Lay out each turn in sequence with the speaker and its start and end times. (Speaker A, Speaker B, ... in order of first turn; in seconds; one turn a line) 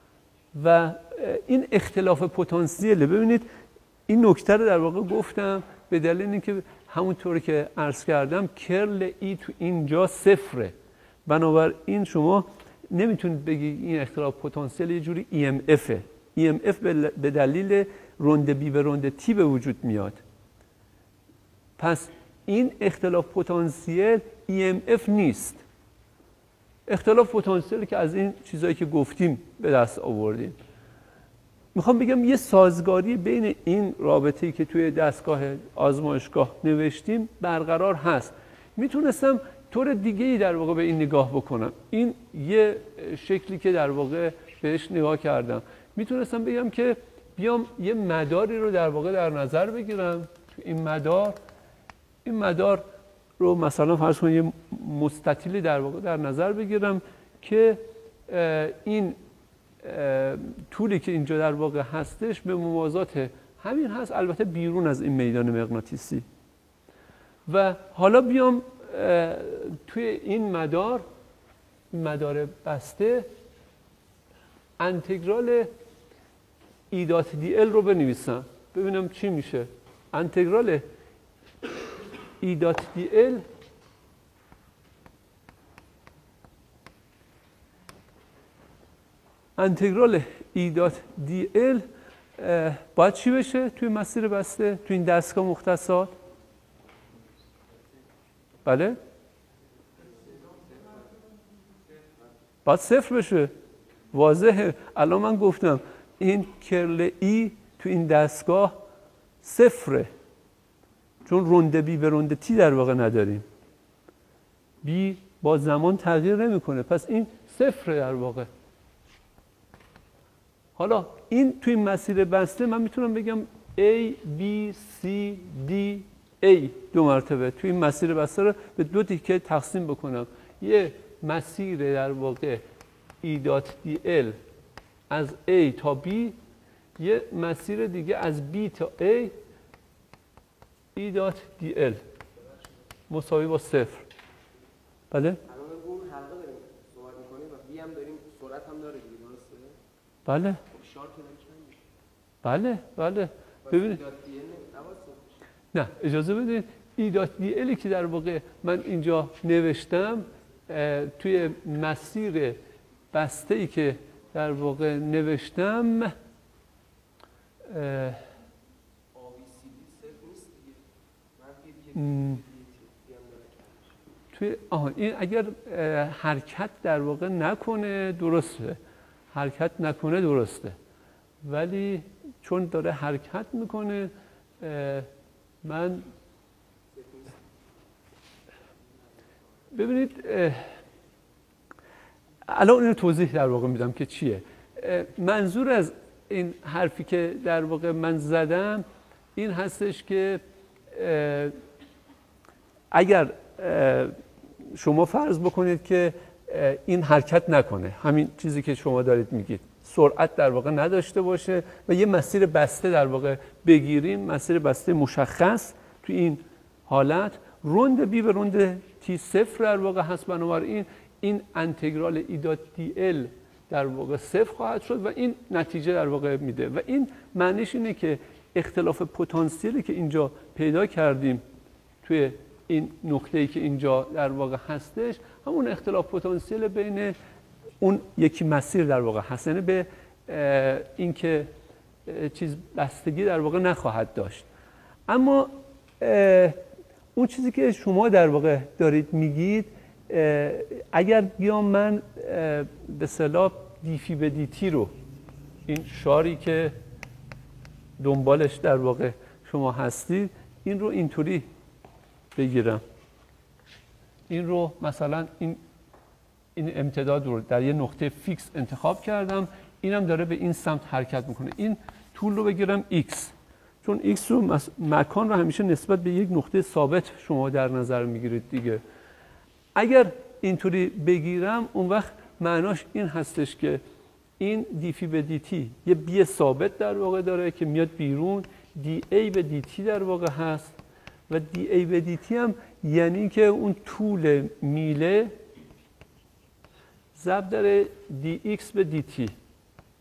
Speaker A: 0.5-3.5
Speaker A: 4.1-10.7
Speaker A: 11.2-20.2
Speaker A: 21.8-25.6
Speaker A: 26.9-30.6
Speaker A: 31.7-51.4
Speaker A: 52.2-52.8
Speaker A: 53.4-59.2
Speaker A: 59.8-66.2
Speaker A: 67.5-71.0
Speaker A: 71.9-73.3
Speaker A: 74.8-75.7
Speaker A: 76.9-80.8
Speaker A: 82.4-83.5
Speaker A: 89.6-91.8
Speaker A: 92.4-96.1
Speaker A: 98.6-99.0
Speaker B: 100.1-101.0
Speaker A: 102.6-103.5
Speaker A: 104.1-108.8
Speaker A: 109.4-110.1
Speaker A: 111.2-113.4
Speaker A: 114.8-118.5
Speaker A: 120.8-132.6
Speaker A: 133.2-134.4
Speaker A: 135.1-136.3
Speaker A: 137.0-139.3
Speaker A: 140.9-142.0
Speaker A: 143.1-144.1
Speaker A: 145.1-145.4
Speaker B: 145.4-149.8
Speaker A: 150.2-150.6
Speaker B: 150.7-151.8
Speaker A: 152.4-154.0
Speaker B: 153.6-155.4
Speaker A: 155.7-162.6
Speaker A: 163.1-166.1
Speaker A: 167.6-168.3
Speaker B: 169.1-174.1
Speaker A: 171.9-172.4
Speaker A: 174.3-178.8
Speaker A: 179.3-180.8
Speaker A: 181.4-185.1
Speaker A: 185.6-186.1
Speaker B: 186.9-187.4
Speaker A: 189.7-190.8
Speaker A: 192.5-198.8
Speaker A: 199.3-201.5
Speaker A: 202.9-204.2
Speaker A: 204.7-231.4
Speaker A: 232.0-237.1
Speaker A: 237.8-241.5
Speaker A: 242.1-244.4
Speaker A: 245.1-246.6
Speaker A: 247.1-254.9
Speaker A: 255.7-256.7
Speaker A: 258.0-261.5
Speaker A: 262.3-262.8
Speaker A: 264.3-265.6
Speaker A: 266.6-278.8
Speaker A: 279.7-283.8
Speaker A: 284.4-290.7
Speaker A: 291.3-295.3
Speaker A: 297.1-299.3